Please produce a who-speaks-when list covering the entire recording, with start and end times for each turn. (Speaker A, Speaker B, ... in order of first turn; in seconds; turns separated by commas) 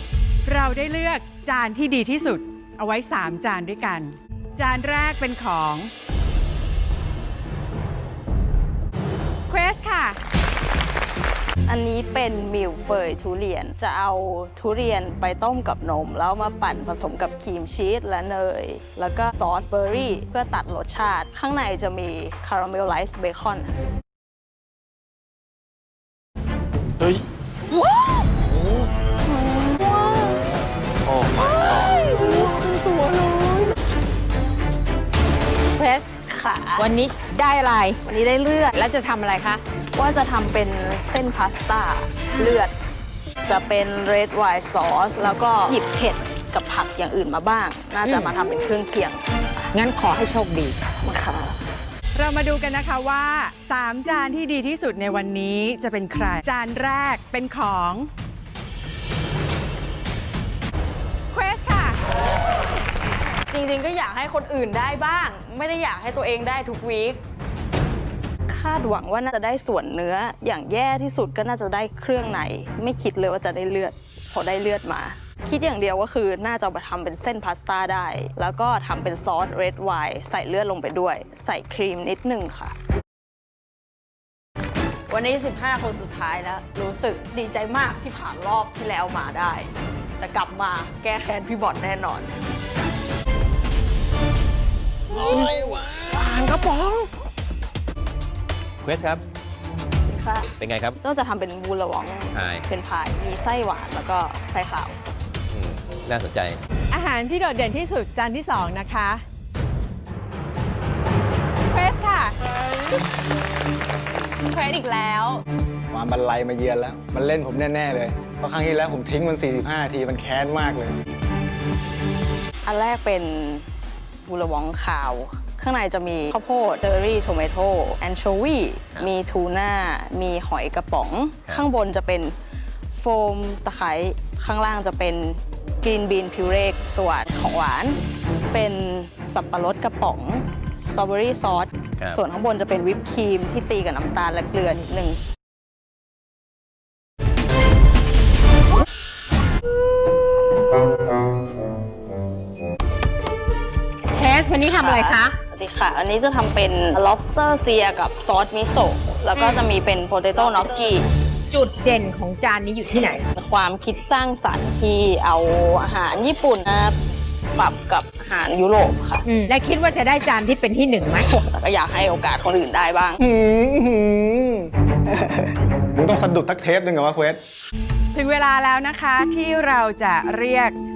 Speaker A: 0.5-5.9, Speaker A: 9.5-10.2, Speaker B: 11.7-23.7, Speaker B: 27.8-28.1, Speaker B: 29.3-30.3, Speaker C: 31.1-31.9, Speaker B: 31.4-33.7, Speaker D: 35.8-36.2, Speaker B: 36.3-36.9, Speaker D: 36.8-38.0, Speaker B: 38.0-38.8, Speaker D: 38.8-39.6, Speaker B: 40.0-42.7, Speaker B: 43.5-49.7, Speaker D: 49.7-50.8, Speaker B: 51.0-51.6, Speaker A: 52.2-58.1, Speaker A: 61.3-62.0, Speaker B: 63.5-67.2, Speaker E: 64.3-64.6, Speaker E: 65.9-67.1, Speaker B: 68.5-82.8, Speaker B: 85.1-87.6, Speaker E: 85.1-89.7, Speaker B: 88.2-89.5, Speaker B: 90.2-92.2, Speaker E: 90.2-92.2, Speaker F: 95.2-96.2, Speaker B: 96.3-97.0, Speaker C: 98.8-99.2, Speaker B: 100.1-105.0, Speaker C: 100.6-101.0, Speaker C: 102.3-102.7, Speaker C: 105.5-106.6, Speaker A: 106.9-109.2, Speaker A: 111.7-112.3, Speaker F: 115.9-121.0, Speaker B: 122.7-123.7, Speaker B: 124.3-132.3, Speaker B: 132.9-138.0, Speaker B: 138.5-145.2, Speaker C: 142.0-142.2, Speaker D: 154.1-155.4, Speaker B: 154.6-161.1, Speaker D: 160.4-160.9, Speaker D: 161.5-163.2, Speaker B: 163.3-167.0, Speaker B: 167.6-169.3, Speaker D: 169.3-171.3, Speaker B: 171.2-173.2, Speaker F: 173.2-174.7, Speaker B: 175.1-175.5, Speaker F: 175.9-177.4, Speaker A: 178.1-180.8